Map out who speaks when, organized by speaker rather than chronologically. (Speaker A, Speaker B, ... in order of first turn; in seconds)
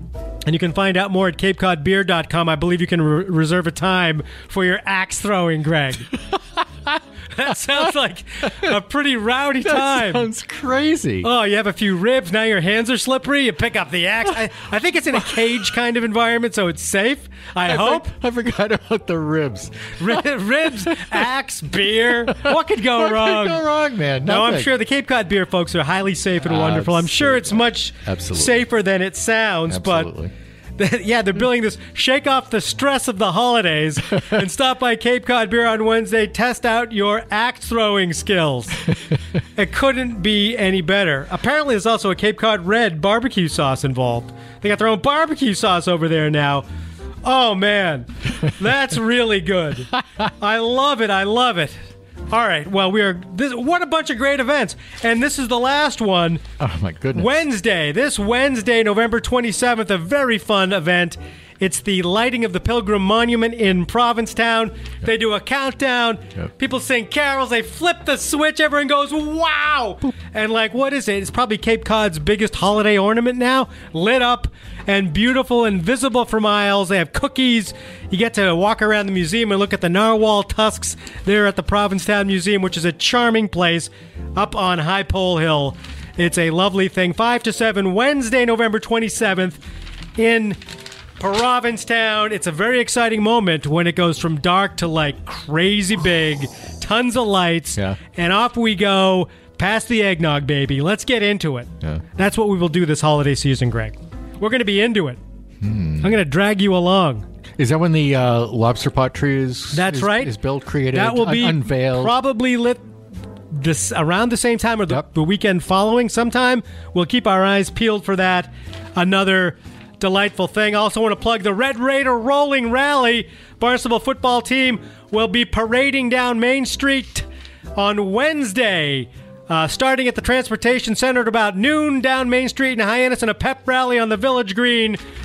Speaker A: 0.5-6.2, 7.3-10.3, 11.2-18.1, 20.0-23.6, 24.2-30.1, 30.8-38.9, 39.6-46.6, 47.2-51.8, 52.3-56.4, 57.1-89.6, 90.2-90.6, 91.2-105.2, 106.0-107.3, 109.7-110.3, 110.9-112.8, 113.5-127.3, 127.8-135.0
Speaker B: 6.3-7.9, 9.7-11.3, 15.2-15.6, 17.7-21.2, 22.1-24.7, 26.4-28.6, 29.7-30.3, 56.6-57.4, 105.6-106.2, 107.6-112.2